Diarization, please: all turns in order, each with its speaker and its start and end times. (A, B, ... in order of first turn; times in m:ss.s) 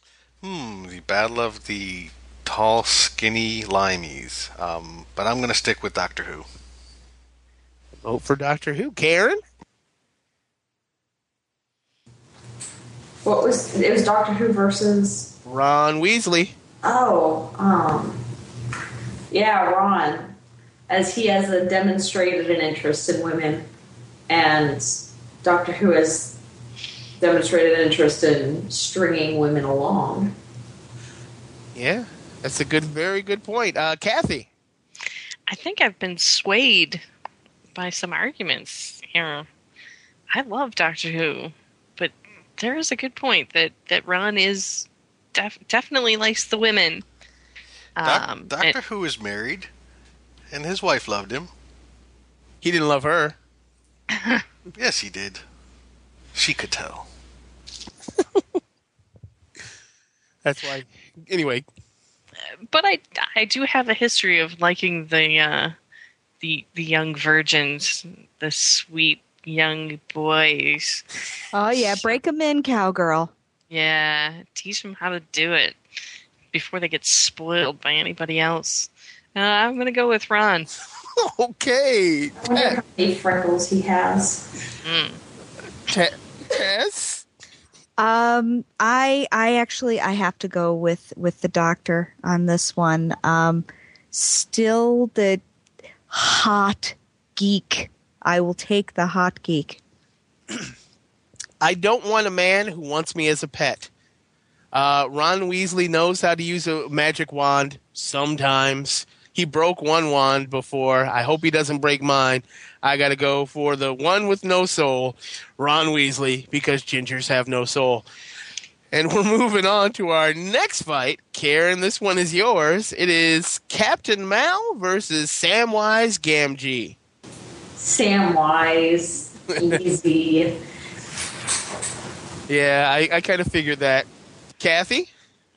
0:00.4-0:06.5 A
0:08.0-0:09.4 B
0:13.2-0:15.3 C
0:15.4-0:16.5 B
0:16.8-0:18.2 C
0:19.3-0:20.3 C
0:20.9-0:23.7 C
0:24.3-0:24.9 C
0:25.4-0:26.4 C
0:27.2-0:30.3 C
0:31.7-0:34.5 B
0:35.5-0:37.0 D
0:37.7-0:39.5 D
0:40.3-0:47.0 D
0:48.0-0:48.8 D
0:48.0-0:49.7 A
0:50.5-0:51.5 A
0:52.6-0:53.4 B
0:54.8-0:55.4 A
0:56.3-0:57.1 A
1:00.4-1:01.6 B
1:02.7-1:05.7 D
1:06.4-1:11.0 D
1:11.5-1:13.3 E
1:11.8-1:12.2 D
1:13.7-1:15.8 D
1:16.5-1:20.7 D
1:21.2-1:22.8 B
1:22.4-1:24.4 C
1:24.8-1:25.2 D
1:25.9-1:27.2 B
1:28.0-1:35.4 E
1:36.1-1:39.8 E
1:41.6-1:43.9 B
1:44.7-1:58.1 B
1:58.9-2:07.0 B
2:07.8-2:10.6 C
2:12.5-2:14.1 B
2:14.6-2:15.1 B